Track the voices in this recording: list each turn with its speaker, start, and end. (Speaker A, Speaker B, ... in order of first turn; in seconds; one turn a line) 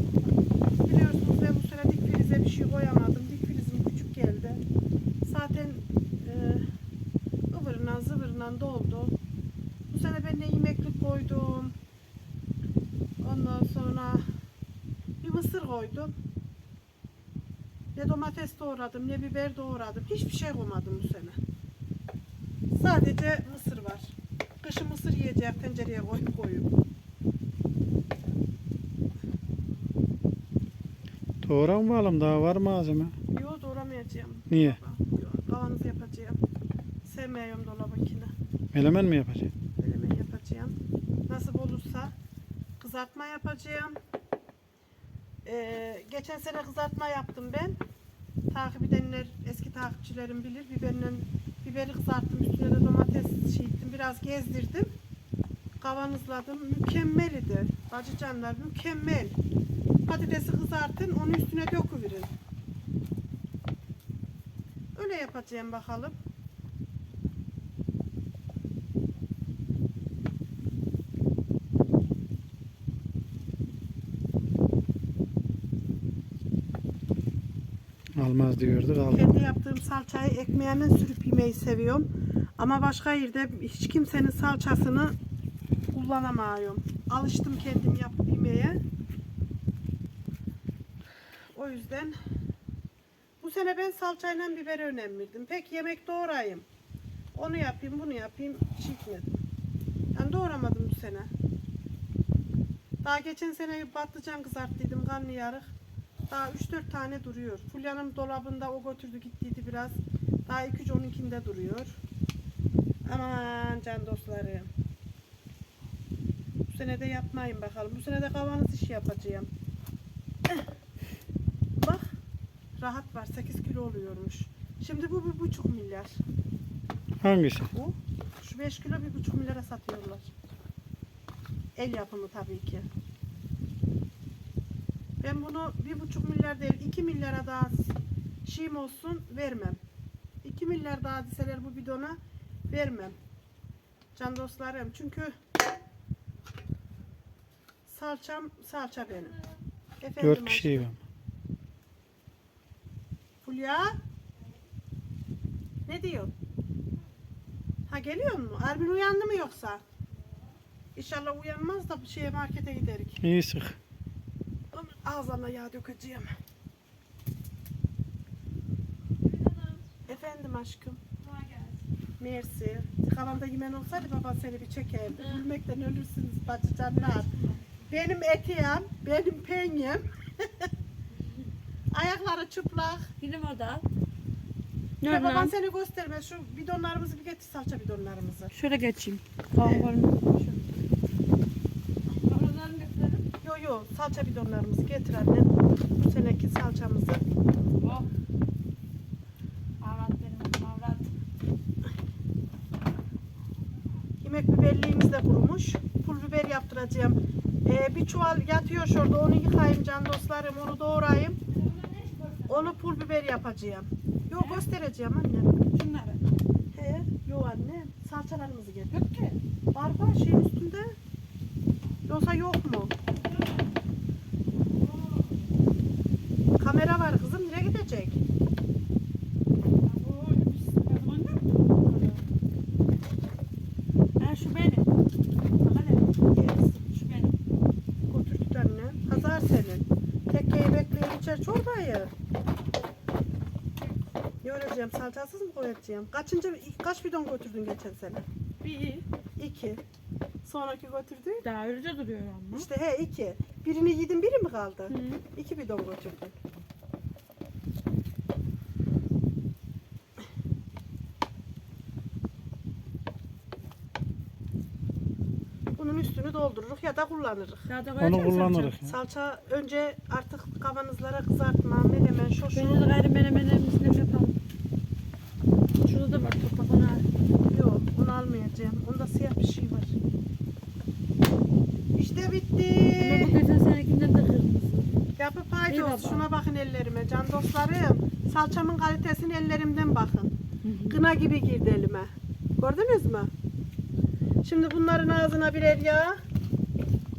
Speaker A: 0.9-4.6
Speaker A: 5.2-6.7
Speaker A: 7.5-9.2
Speaker A: 9.9-11.8
Speaker A: 13.2-14.3
Speaker A: 15.2-16.1
Speaker A: 18.0-21.4
Speaker A: 22.7-26.7
Speaker B: 31.4-33.2
Speaker A: 33.3-36.4
Speaker B: 34.5-34.8
Speaker A: 37.0-38.3
Speaker B: 38.7-39.5
Speaker A: 39.8-40.8
Speaker A: 41.3-42.1
Speaker A: 42.8-44.0
Speaker A: 45.5-47.8
Speaker A: 48.5-54.9
Speaker A: 55.8-59.4
Speaker A: 60.0-62.3
Speaker A: 65.0-66.2
Speaker B: 78.2-79.4
Speaker A: 79.1-85.2
Speaker A: 85.9-88.8
Speaker A: 91.5-92.2
Speaker A: 93.4-96.7
Speaker A: 97.3-99.3
Speaker A: 100.1-101.3
Speaker A: 103.0-105.7
Speaker A: 106.3-112.0
Speaker A: 113.0-114.7
Speaker A: 116.7-119.5
Speaker A: 122.8-126.2
Speaker B: 127.2-127.7
Speaker A: 127.7-130.3
Speaker A: 131.8-132.9
Speaker A: 135.2-137.9
Speaker A: 138.4-139.8
Speaker A: 140.4-142.2
Speaker A: 142.7-143.2
Speaker A: 144.2-145.3
Speaker A: 147.9-149.4
Speaker A: 150.0-150.9
Speaker B: 150.2-151.0
Speaker A: 153.4-154.0
Speaker A: 155.9-156.3
Speaker A: 157.9-159.8
Speaker A: 160.9-163.2
Speaker B: 163.2-163.8
Speaker A: 164.7-166.3
Speaker C: 169.2-169.8
Speaker A: 170.1-171.0
Speaker C: 171.2-171.8
Speaker A: 172.2-177.3
Speaker C: 175.2-175.5
Speaker C: 176.9-177.7
Speaker A: 177.9-180.7
Speaker A: 181.9-183.1
Speaker C: 183.2-183.8
Speaker C: 185.0-185.5
Speaker A: 185.0-188.5
Speaker C: 188.5-190.7
Speaker A: 189.6-189.9
Speaker C: 192.2-193.2
Speaker A: 193.4-197.2
Speaker C: 197.8-198.1
Speaker C: 199.8-201.1
Speaker A: 204.2-211.4
Speaker C: 211.5-212.8
Speaker A: 212.5-215.6
Speaker C: 214.3-214.7
Speaker C: 215.7-216.2
Speaker A: 216.7-219.1
Speaker C: 218.9-219.3
Speaker A: 219.7-220.9
Speaker A: 222.1-222.9
Speaker C: 224.8-225.3
Speaker A: 226.6-228.2
Speaker C: 229.8-232.3
Speaker C: 234.2-234.9
Speaker C: 235.6-237.4
Speaker A: 238.1-242.1
Speaker A: 244.4-248.2
Speaker C: 248.6-249.1
Speaker A: 249.4-249.8
Speaker A: 250.4-251.4
Speaker C: 251.4-252.7
Speaker A: 252.5-256.4
Speaker C: 254.9-255.2
Speaker A: 265.8-267.7
Speaker C: 267.7-268.8
Speaker B: 268.0-269.0
Speaker A: 268.9-272.8
Speaker C: 272.6-274.4
Speaker C: 275.8-277.1
Speaker A: 277.5-279.9
Speaker A: 281.9-283.4
Speaker C: 283.0-284.9
Speaker A: 285.2-290.3
Speaker C: 285.7-286.3
Speaker C: 290.6-291.0
Speaker A: 290.9-293.3
Speaker A: 294.4-296.2